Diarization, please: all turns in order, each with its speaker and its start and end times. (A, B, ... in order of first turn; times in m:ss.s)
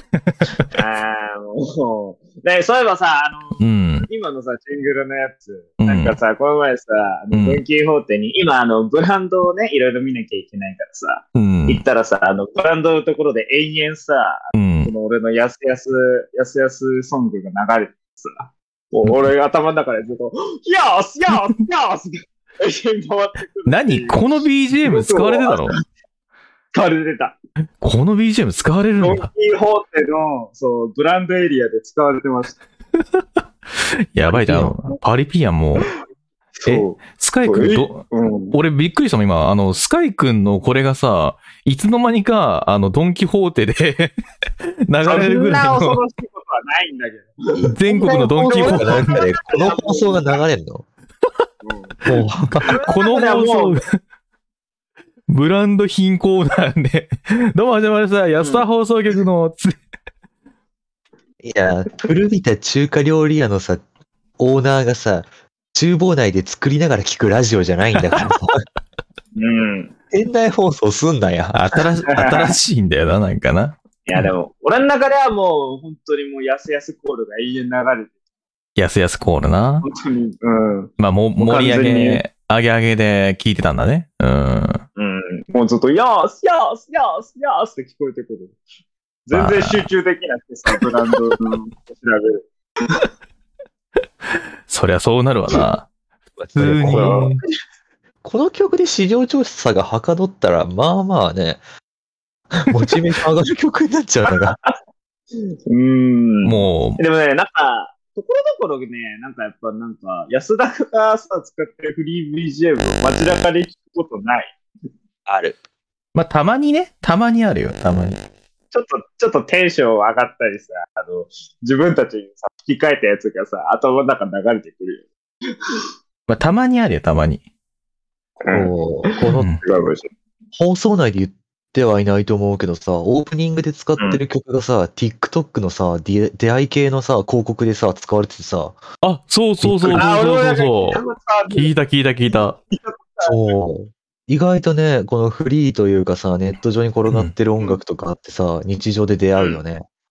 0:00.3-0:00.7 A
0:00.7-0:25.8 B
0:03.6-0:04.1 A
0:05.8-0:06.2 A
0:07.3-0:07.6 A
0:11.3-0:11.8 A
0:14.5-0:14.9 A
0:23.7-0:25.8 A
0:26.7-0:27.4 B
0:27.8-0:29.3 A
0:29.0-0:32.6 B
0:34.1-0:35.9 A
0:34.3-0:34.7 C
0:34.3-0:34.7 B
0:36.6-0:38.5 B
0:36.6-0:46.0 A
0:45.0-0:50.4 B
0:47.5-0:50.8 C
0:47.8-0:49.1 A
0:51.6-0:52.0 B
0:52.0-0:52.7 C
0:52.5-0:53.9 A
0:52.6-0:53.8 B
0:55.3-0:59.8 A
1:01.4-1:03.8 C
1:04.4-1:08.6 C
1:09.3-1:09.9 B
1:10.1-1:11.6 C
1:11.5-1:14.3 A
1:12.1-1:12.6 B
1:14.0-1:18.1 B
1:18.8-1:19.9 A
1:19.8-1:22.2 B
1:21.0-1:24.8 A
1:25.0-1:28.6 B
1:29.3-1:32.5 B
1:29.3-1:29.9 A
1:34.7-1:35.9 A
1:36.4-1:37.3 C
1:36.6-1:37.4 A
1:36.9-1:37.3 B
1:38.2-1:41.6 C
1:42.5-1:44.6 C
1:45.3-1:54.5 B
1:46.4-1:47.0 A
1:55.2-1:55.6 C
1:56.1-1:58.2 A
1:58.7-2:05.1 B
2:06.3-2:07.4 A
2:08.4-2:10.1 B
2:08.5-2:09.5 C
2:09.3-2:09.6 A
2:10.5-2:18.8 C
2:14.0-2:14.2 B
2:19.0-2:22.6 A
2:19.6-2:20.0 C
2:19.9-2:21.7 B
2:22.7-2:23.6 B
2:23.2-2:29.8 C
2:27.1-2:27.3 A